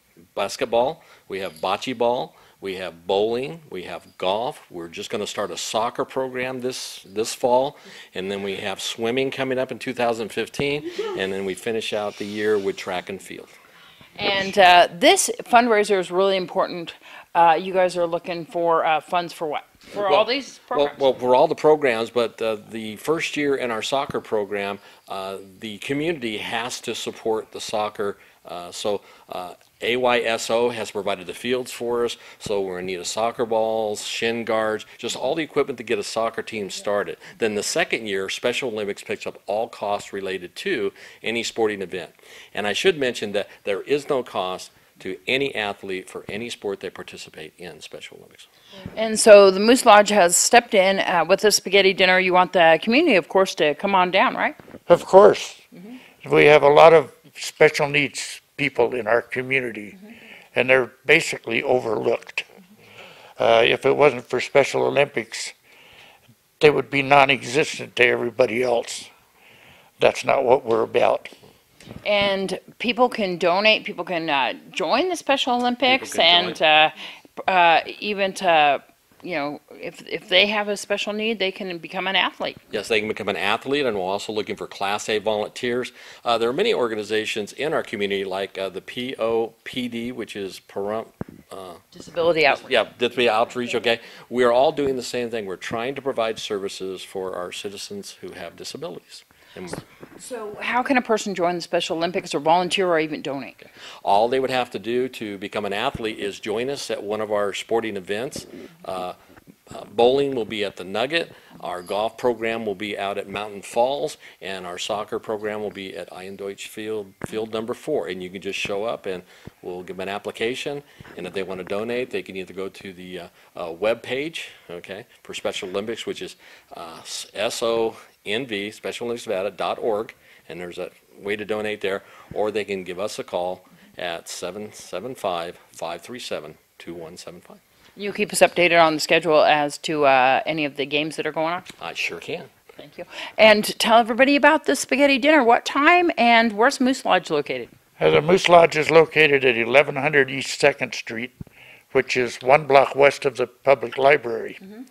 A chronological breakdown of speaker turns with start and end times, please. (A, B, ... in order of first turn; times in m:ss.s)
0:00.4-0:13.6 A
0:14.2-0:21.1 B
0:19.9-0:48.5 A
0:48.9-0:54.6 B
0:54.9-0:55.6 C
0:56.2-1:00.0 C
1:00.5-1:02.4 C
1:03.4-1:05.5 C
1:06.6-1:09.1 C
1:10.0-1:11.3 C
1:12.0-1:22.6 B
1:15.8-1:16.6 A
1:22.7-1:31.8 A
1:31.9-1:32.7 B
1:32.5-1:39.8 A
1:40.2-1:43.6 B
1:44.0-1:49.2 A
1:49.7-2:17.6 A
2:18.0-2:21.7 B
2:21.8-2:22.5 A
2:22.8-2:27.7 B
2:28.0-2:31.3 C
2:31.9-2:34.6 C